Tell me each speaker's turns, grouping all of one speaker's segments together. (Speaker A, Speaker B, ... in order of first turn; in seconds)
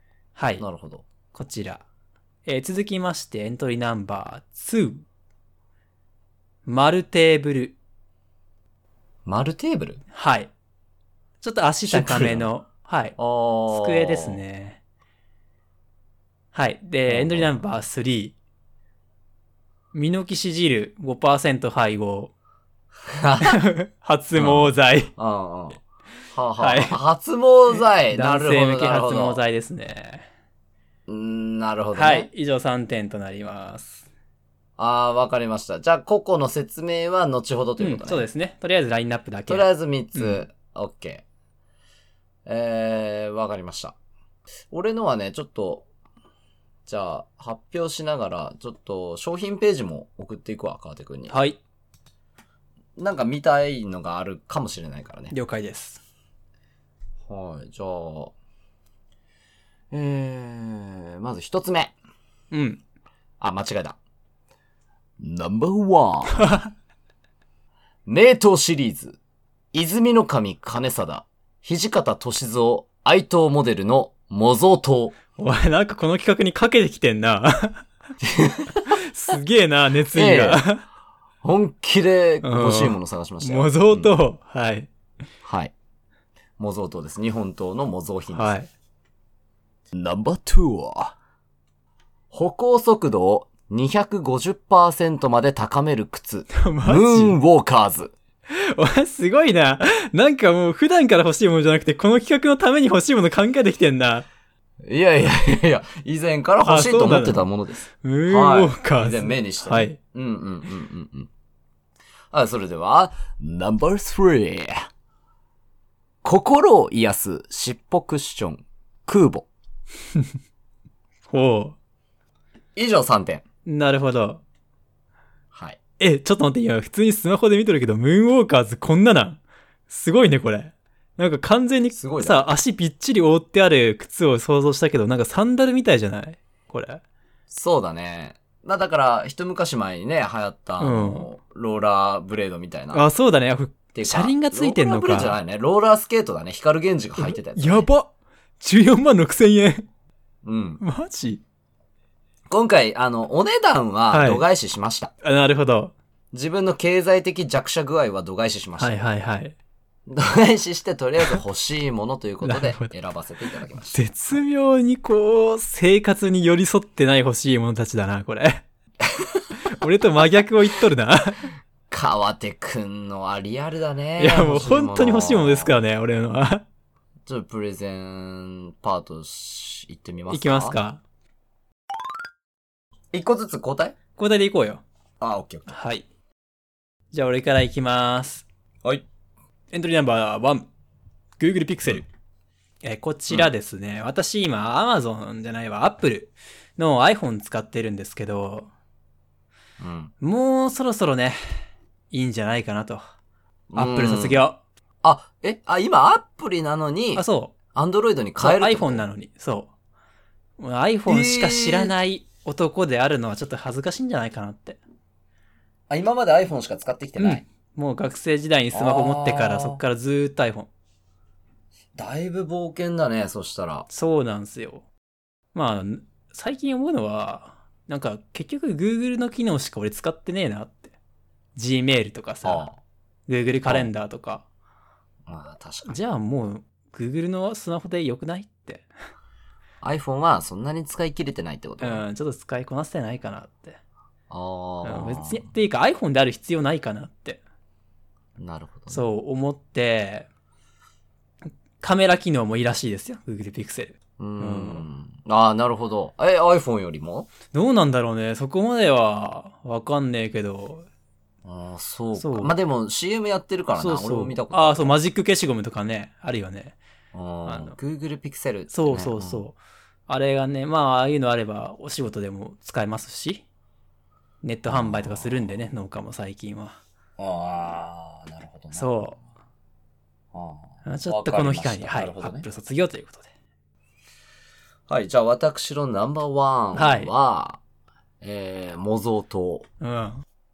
Speaker A: 0.3-0.6, 1.3-1.8, 2.5-5.0, 6.6-7.8, 10.1-10.5, 11.4-13.2, 13.7-14.8, 16.5-18.3, 19.9-22.3, 23.5-25.1, 26.6-27.0, 28.1-30.3, 31.9-34.0, 37.8-40.4, 51.3-51.6, 55.3-56.0, 62.5-62.8, 66.3-66.7, 75.4-77.8, 78.9-80.8, 82.4-84.9, 88.3-88.7, 96.5-97.3, 98.5-104.3, 106.6-110.0, 121.3-121.8, 123.6-124.4, 126.0-137.0, 140.8-141.3, 142.9-145.4, 147.2-149.8, 150.8-151.4, 154.1-154.4, 155.2-155.9, 158.8-159.6, 162.4-162.9, 163.9-168.6, 169.7-171.5, 174.2-176.6, 180.3-181.0, 184.2-184.8, 185.7-186.1, 187.1-188.4, 189.7-190.7, 191.4-192.1, 192.8-198.7, 200.2-203.0, 203.8-204.6, 207.2-207.5, 208.4-209.7, 210.6-214.8, 217.2-220.7, 223.9-224.8, 225.5-230.9, 231.6-232.7, 233.3-234.4, 235.9-238.9, 241.8-243.8, 244.8-247.4, 248.9-250.3, 251.8-254.8, 257.5-260.9, 262.1-262.5, 263.8-266.8, 267.5-267.8, 268.7-273.4, 274.4-276.8, 278.7-279.2, 280.8-283.3, 286.7-287.1, 289.8-290.2
Speaker B: 0.6-1.1, 9.2-10.0, 11.8-12.5, 13.2-14.4, 17.1-17.6, 23.1-23.6, 24.4-29.4, 31.1-32.3, 34.8-38.2, 39.5-41.2, 42.5-43.9, 44.7-45.9, 46.9-51.4, 53.0-55.3, 57.3-58.3, 59.9-61.9, 63.4-64.0, 65.2-66.6, 68.0-69.2, 69.7-75.2, 78.2-79.0, 80.1-80.6, 81.4-84.1, 85.4-85.7, 86.6-88.5, 89.9-91.2, 92.3-98.1, 104.8-111.3, 112.3-114.9, 116.2-119.5, 122.8-123.4, 125.5-125.8, 131.9-132.5, 137.5-143.1, 143.9-147.9, 150.4-150.8, 152.5-155.1, 156.3-158.9, 160.1-164.4, 169.1-169.5, 171.9-175.8, 177.3-180.8, 183.1-184.0, 185.2-185.7, 199.8-200.1, 203.7-204.4, 205.0-209.1, 211.1-211.9, 215.9-217.4, 218.7-219.8, 221.9-223.9, 232.4-232.8, 235.3-236.0, 239.8-242.0, 244.3-245.4, 248.4-249.1, 254.2-257.3, 261.4-264.9, 267.1-269.4, 274.7-275.5, 277.2-278.9, 280.3-282.4, 284.9-287.6, 288.2-289.7